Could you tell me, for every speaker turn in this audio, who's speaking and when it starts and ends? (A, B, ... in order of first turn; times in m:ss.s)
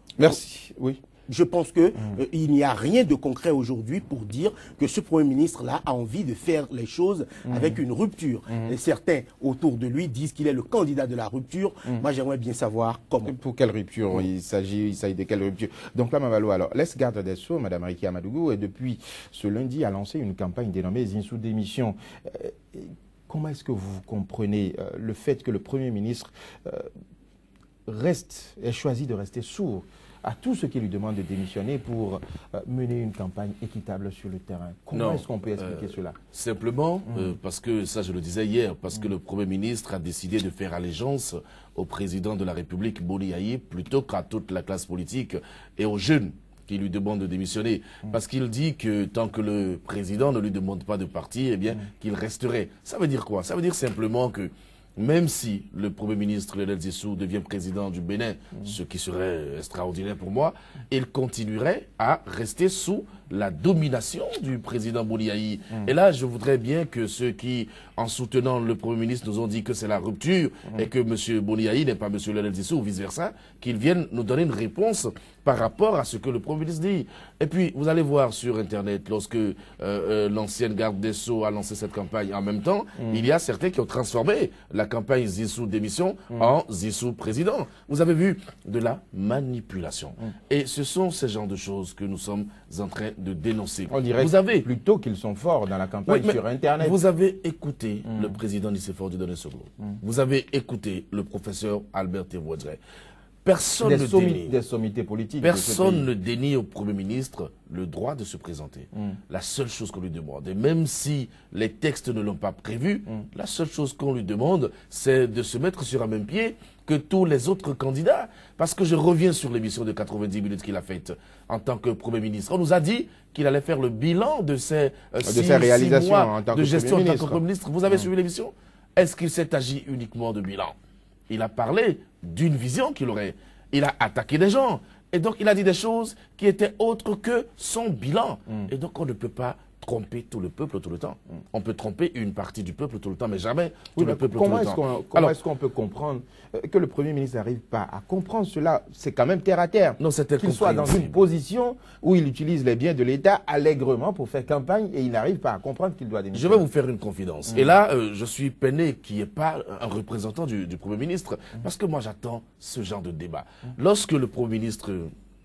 0:00.2-0:01.0 A
0:01.3-0:13.4 B
0:07.4-0:07.8 A
0:13.2-0:26.9 A
0:27.9-0:36.2 A
0:34.9-1:34.6 C
1:33.9-1:37.0 A
1:36.1-1:42.8 C
1:43.4-1:44.6 C
1:43.8-1:46.1 A
1:45.4-2:10.7 C
2:05.2-2:07.4 A
2:11.3-2:25.4 C
2:24.0-2:36.6 A
2:30.0-2:31.2 C
2:36.3-2:45.1 C